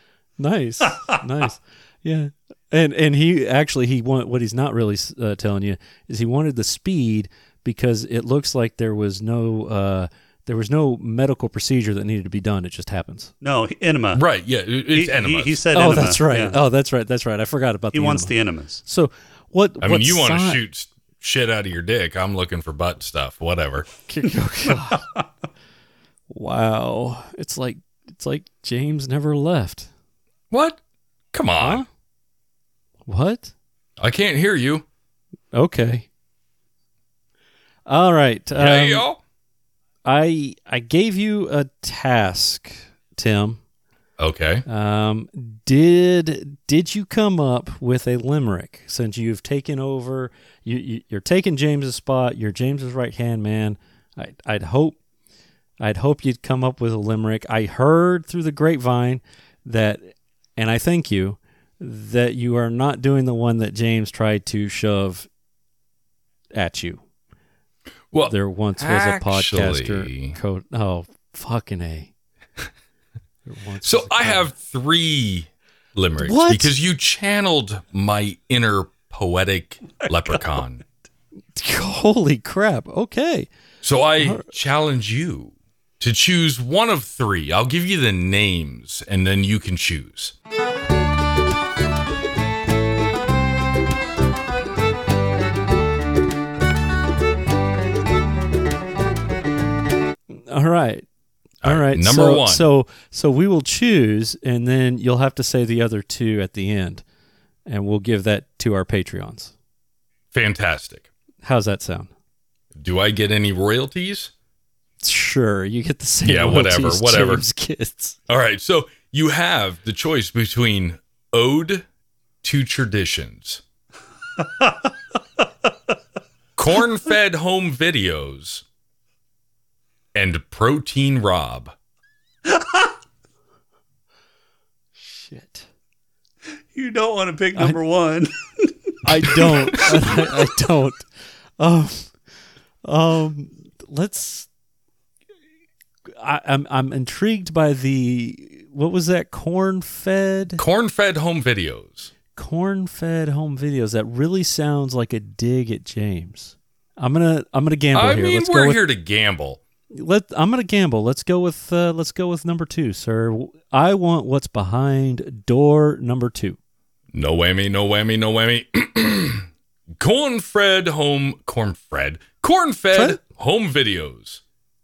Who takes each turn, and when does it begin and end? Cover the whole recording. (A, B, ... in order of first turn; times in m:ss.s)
0:00.4-0:13.3 A
0:13.4-0:14.2 B
0:14.1-0:15.6 C
0:14.9-0:16.6 B
0:15.7-0:20.6 A
0:17.9-0:18.8 B
0:19.8-0:23.9 C
0:24.1-0:25.0 A
0:25.0-0:25.2 B
0:26.3-0:29.9 A
0:30.5-0:30.8 C
0:31.3-0:31.8 C
0:31.6-0:31.9 A
0:33.1-0:33.5 A
0:34.0-0:34.8 C
0:35.5-0:36.0 A
0:37.9-0:39.1 A
0:38.6-0:39.2 C
0:40.0-0:43.6 A
0:44.2-0:44.6 C
0:44.7-0:55.0 A
0:55.8-1:05.3 A
1:06.6-1:07.0 A
1:08.1-1:10.4 C
1:08.2-1:12.1 A
1:13.4-1:14.5 A
1:13.8-1:20.8 C
1:16.2-1:16.7 A
1:20.0-1:20.4 B
1:21.6-1:23.5 A
1:23.8-1:30.3 C
1:24.2-1:24.5 A
1:40.3-1:41.0 A
1:41.6-1:42.7 C
1:41.6-1:47.0 A
1:47.7-1:49.5 A
1:50.3-1:51.1 C
1:51.4-1:52.1 A
1:52.7-1:54.3 C
1:55.0-1:58.2 A
1:56.2-1:57.4 C
1:58.3-2:01.8 C
2:02.4-2:03.6 C
2:04.4-2:04.7 B
2:06.6-2:08.6 C
2:10.1-2:11.7 C
2:12.5-2:12.9 B
2:15.0-2:15.7 A
2:16.7-2:19.8 B
2:19.0-2:21.0 A
2:21.6-2:22.1 A
2:22.8-2:24.5 A
2:26.1-2:30.6 A
2:30.6-2:32.1 C
2:32.3-2:38.8 A
2:37.9-2:39.6 C
2:39.9-2:46.6 A
2:47.1-2:49.5 C
2:50.0-2:54.4 C
2:52.9-2:53.2 A